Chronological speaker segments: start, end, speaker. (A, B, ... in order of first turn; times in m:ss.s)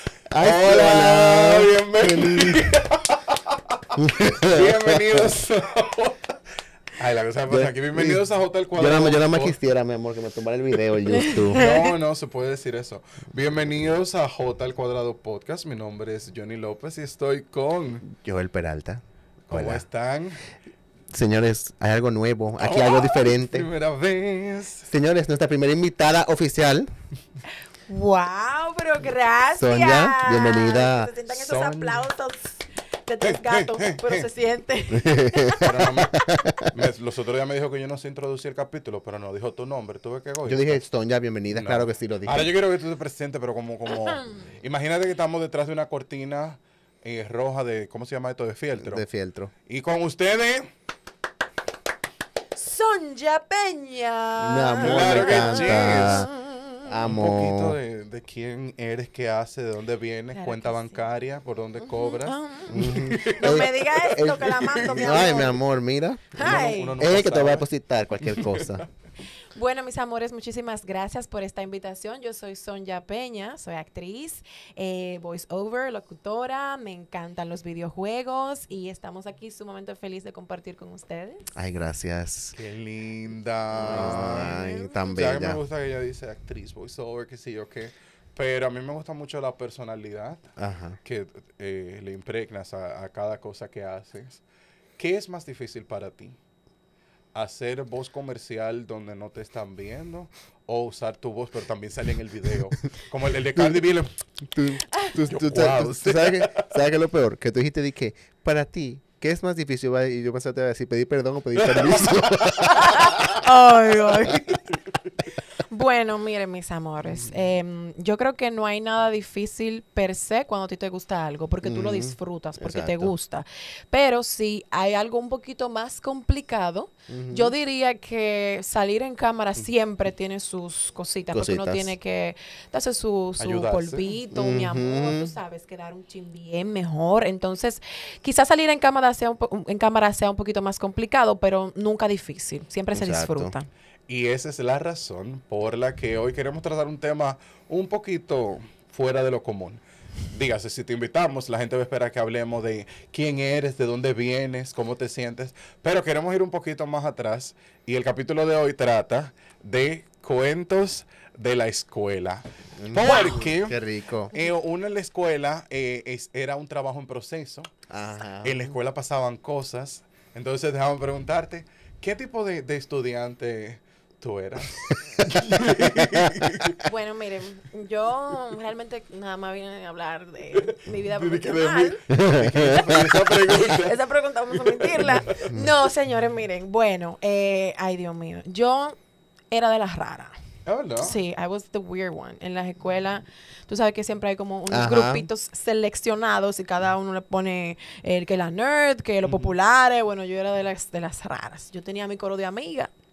0:00.3-0:02.7 A
0:00.4-0:06.3 B
0:04.0-0:05.3 A
0:06.9-0:09.6 B
0:07.5-0:08.2 A
0:08.7-0:11.8 A
0:11.1-0:11.9 C
0:11.5-0:18.0 B
0:18.0-0:19.8 A
0:19.5-0:20.4 B
0:21.1-0:23.7 A
0:22.6-0:24.9 B
0:24.9-0:26.9 A
0:27.9-0:35.6 C
0:29.5-0:31.1 A
0:31.3-0:32.1 B
0:33.2-0:34.3 B
0:34.9-0:36.7 A
0:35.6-0:40.8 B
0:40.4-0:42.5 A
0:41.5-0:49.0 B
0:44.0-0:44.4 C
0:48.8-0:49.5 A
0:49.7-0:50.7 B
0:52.5-0:56.9 C
0:54.4-0:56.3 A
0:54.8-0:56.3 B
0:56.8-0:57.8 A
0:57.0-1:05.4 B
1:00.3-1:01.0 C
1:01.8-1:05.6 C
1:02.7-1:08.8 A
1:06.3-1:07.0 C
1:06.4-1:07.7 B
1:08.2-1:08.8 B
1:09.5-1:21.5 C
1:21.5-1:22.6 A
1:22.6-1:30.5 B
1:23.7-1:25.6 A
1:23.9-1:25.0 C
1:30.6-1:31.0 A
1:31.0-1:34.4 B
1:35.0-1:36.4 B
1:37.3-1:44.1 B
1:44.5-1:53.1 A
1:45.3-1:46.7 B
1:51.6-1:53.4 B
1:52.7-1:54.6 C
1:55.6-2:23.7 C
2:01.6-2:03.1 A
2:07.1-2:07.5 A
2:11.3-2:11.9 A
2:13.4-2:14.2 B
2:14.3-2:15.3 A
2:22.9-2:23.5 A
2:24.1-2:43.8 B
2:42.8-2:44.3 A
2:43.0-2:43.5 C
2:44.3-2:47.7 B
2:47.9-2:48.8 A
2:48.4-2:56.8 B
2:55.2-2:56.6 A
2:56.8-3:02.0 C
3:00.5-3:04.0 B
3:02.1-3:03.2 A
3:03.5-3:09.0 C
3:04.5-3:05.5 B
3:05.4-3:05.7 A
3:09.5-3:10.3 C
3:10.6-3:11.2 B
3:11.0-3:22.9 C
3:14.7-3:15.3 A